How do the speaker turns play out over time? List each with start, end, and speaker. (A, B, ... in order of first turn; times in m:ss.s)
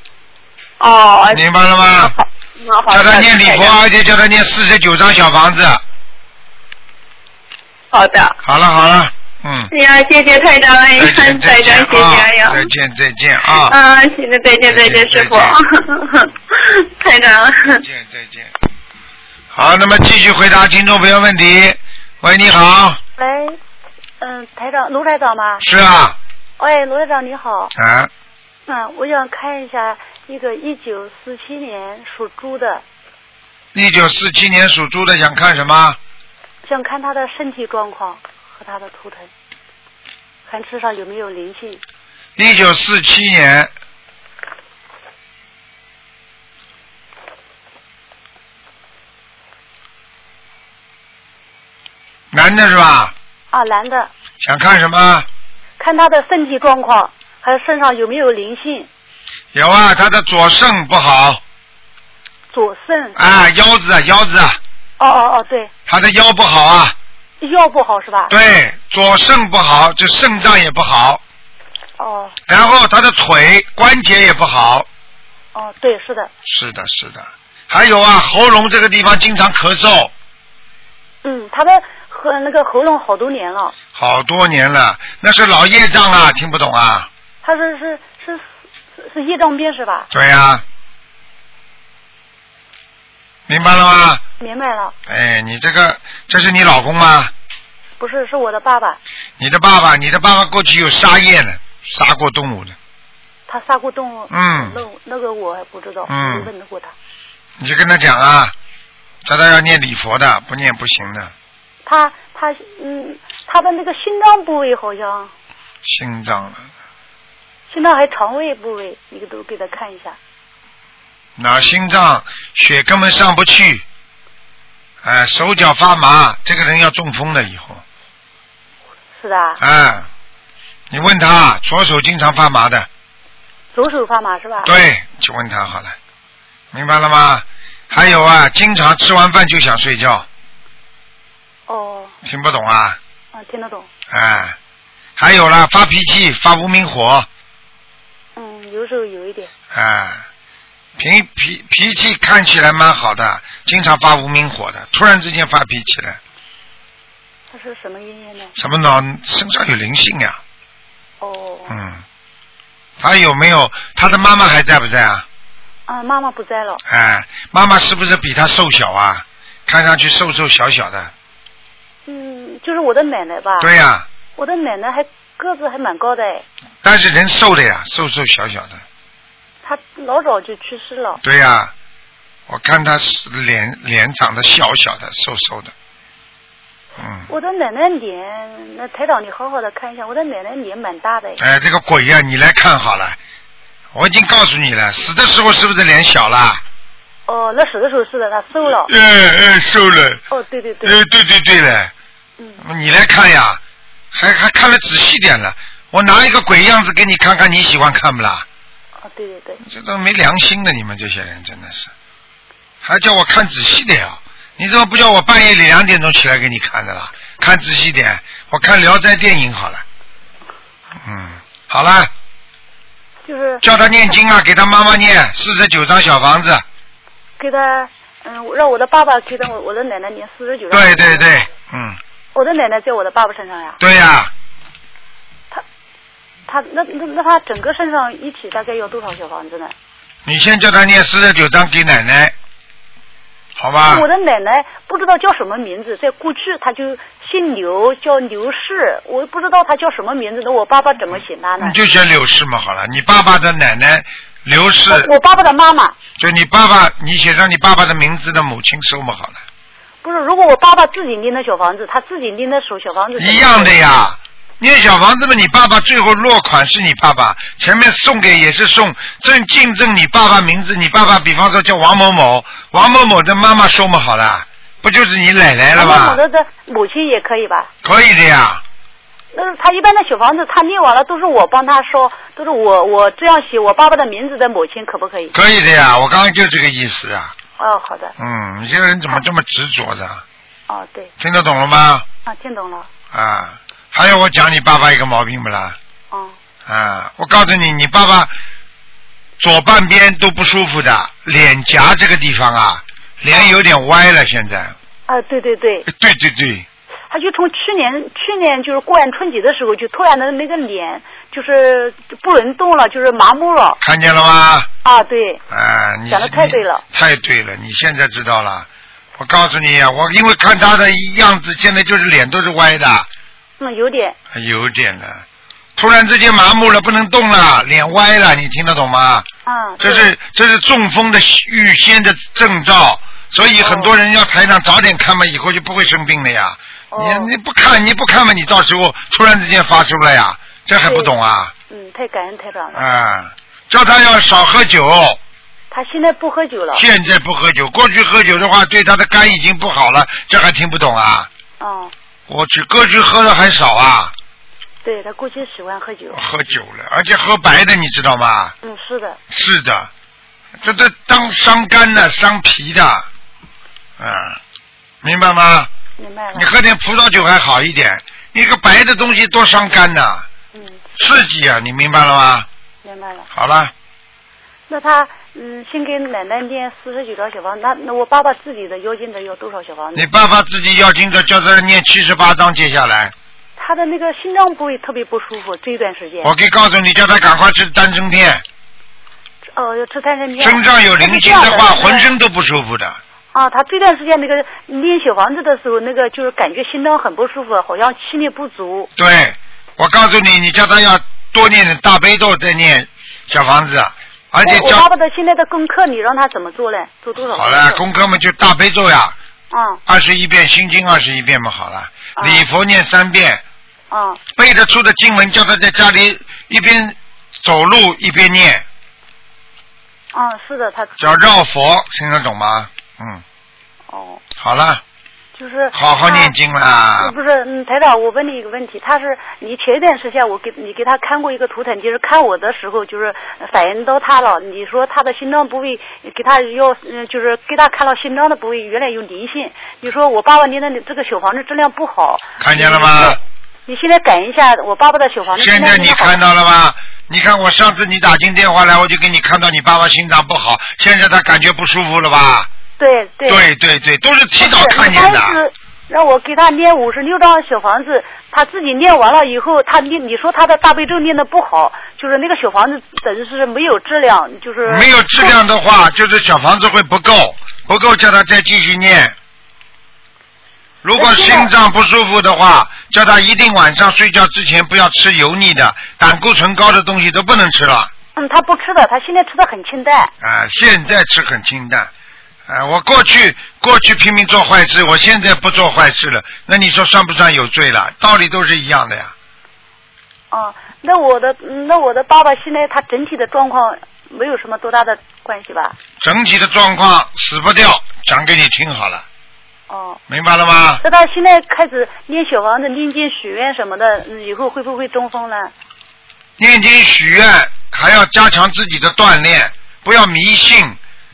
0:00.8-0:01.4 A
0:01.3-0:02.1 B
0:02.0-0:03.8 A
0:02.9-0:05.8 B
0:07.9-0:08.4 A
0:08.4-0:09.7 B
0:09.7-0:12.7 A
0:11.0-0:13.8 B
0:13.6-0:17.8 A
0:14.7-0:15.6 B
0:17.7-0:18.5 B
0:19.5-0:23.0 B
0:23.2-0:23.6 C
0:24.2-0:25.6 C
0:25.6-0:26.2 B
0:26.6-0:27.7 C
0:27.8-0:28.1 B
0:28.7-0:32.8 C
0:33.7-0:36.0 B
0:36.6-0:39.3 C
0:40.5-0:41.8 C
0:42.4-0:43.7 B
0:52.3-0:53.1 B
0:53.5-0:54.1 C
0:54.4-0:55.3 B
0:55.8-0:58.9 C
0:59.5-1:01.4 B
1:02.5-1:03.2 C
1:03.2-1:04.6 B
1:05.0-1:05.7 C
1:05.9-1:07.0 B
1:07.4-1:08.3 C
1:08.3-1:11.2 B
1:12.0-1:12.4 C
1:12.5-1:14.9 B
1:15.5-1:16.3 C
1:16.4-1:20.1 B
1:21.2-1:23.8 C
1:24.0-1:27.1 B
1:27.4-1:28.4 C
1:29.0-1:30.1 C
1:30.1-1:30.6 B
1:33.5-1:34.2 B
1:34.4-1:35.0 C
1:35.1-1:37.3 B
1:38.0-1:39.0 C
1:39.4-1:42.8 B
1:43.5-1:46.9 C
1:44.3-1:44.8 B
1:46.1-1:46.5 B
1:47.6-1:48.5 B
1:49.2-1:51.3 B
1:51.9-1:55.3 C
1:55.8-1:56.7 B
1:57.7-2:00.2 C
2:01.4-2:03.8 B
2:05.0-2:07.8 B
2:09.2-2:09.6 C
2:09.6-2:10.1 B
2:10.9-2:12.9 B
2:13.7-2:14.7 C
2:14.6-2:16.0 B
2:16.7-2:20.3 B
2:17.9-2:18.2 C
2:21.7-2:22.1 C
2:22.2-2:23.0 B
2:23.3-2:23.9 C
2:24.1-2:24.6 B
2:25.2-2:27.3 B
2:28.4-2:29.5 C
2:29.7-2:30.2 B
2:31.0-2:36.2 B
2:37.5-2:38.5 C
2:38.6-2:40.4 B
2:41.2-2:41.8 C
2:41.7-2:42.0 B
2:43.0-2:45.2 B
2:45.9-2:46.8 C
2:46.9-2:51.1 B
2:52.1-2:53.7 C
2:53.6-2:54.1 B
2:54.4-2:56.4 C
2:56.8-2:58.8 B
2:59.6-3:01.2 C
3:01.2-3:01.7 B
3:02.5-3:05.7 B
3:07.0-3:07.3 B
3:07.3-3:11.4 C
3:11.4-3:13.2 B
3:13.9-3:16.6 B
3:17.3-3:18.9 C
3:18.8-3:20.2 B
3:20.3-3:21.0 C
3:20.8-3:21.9 B
3:22.6-3:23.6 B
3:24.1-3:28.5 B
3:29.0-3:29.6 C
3:29.6-3:31.9 B
3:32.8-3:39.8 B
3:41.0-3:42.1 B
3:43.2-3:43.6 C
3:43.6-3:46.6 B
3:47.4-3:51.4 C
3:50.7-3:52.0 B
3:52.4-3:53.8 C
3:53.8-3:54.3 B
3:56.5-3:59.7 C
4:00.2-4:02.3 B
4:03.6-4:04.1 B
4:03.9-4:11.8 C
4:11.6-4:15.1 B
4:14.9-4:16.0 C
4:16.2-4:19.4 B
4:20.0-4:23.8 C
4:23.2-4:36.2 B
4:35.7-4:37.7 C
4:37.8-4:38.6 B
4:39.3-4:45.3 C
4:45.3-4:47.4 B
4:47.6-4:48.1 C
4:48.2-4:50.2 B
4:50.7-4:51.1 C
4:51.2-4:52.1 B
4:52.3-4:52.9 C
4:53.1-4:55.8 B
4:56.7-4:58.3 B
4:59.4-5:04.8 B
5:05.1-5:05.9 C
5:05.9-5:06.7 B
5:07.1-5:13.8 C
5:13.8-5:14.7 B
5:14.8-5:15.4 C
5:15.5-5:18.7 B
5:16.1-5:16.8 C
5:19.2-5:23.1 B
5:23.6-5:24.2 C
5:24.3-5:25.2 B
5:25.8-5:29.3 B
5:29.5-5:30.1 C
5:29.8-5:41.5 B
5:33.6-5:33.9 C
5:36.9-5:37.3 C
5:40.8-5:41.1 C
5:41.7-5:42.8 C
5:42.7-5:45.2 B
5:45.7-5:46.8 C
5:46.7-5:51.3 B
5:51.6-5:51.9 C
5:52.3-5:54.1 B
5:54.8-5:56.2 C
5:56.1-5:58.6 B
5:58.6-5:59.2 C
5:59.3-5:59.9 B
6:00.6-6:03.1 B
6:04.0-6:04.4 B
6:05.0-6:05.7 B
6:06.0-6:06.5 C
6:06.3-6:10.3 B
6:10.5-6:10.8 C
6:11.0-6:12.5 B
6:12.8-6:13.3 C
6:13.3-6:13.7 B
6:14.7-6:20.1 C
6:20.0-6:23.1 B
6:23.6-6:26.3 C
6:26.2-6:28.4 B
6:29.5-6:32.1 C
6:30.4-6:33.0 B
6:33.3-6:38.9 C
6:39.0-6:44.9 B
6:44.4-6:47.8 C
6:47.3-6:49.2 B
6:49.5-6:49.8 C
6:49.9-6:53.4 B
6:52.2-6:52.4 C
6:53.9-6:54.2 C
6:54.4-6:58.6 B
7:00.1-7:01.1 C
7:01.0-7:03.2 B
7:03.9-7:04.2 C
7:04.4-7:04.8 B
7:05.4-7:06.3 C
7:05.7-7:07.2 B
7:07.0-7:26.2 C
7:22.4-7:23.2 B
7:25.4-7:32.5 B
7:32.8-7:33.5 C
7:33.3-7:35.4 B
7:34.4-7:45.4 C
7:44.6-7:49.2 B
7:50.8-7:57.9 B
7:51.0-7:51.5 C
7:58.2-8:00.1 C
8:00.2-8:01.9 B
8:02.5-8:09.1 B
8:10.3-8:15.8 C
8:16.0-8:19.0 B
8:19.7-8:20.0 C
8:20.1-8:20.8 B
8:20.8-8:25.5 C
8:26.4-8:30.8 B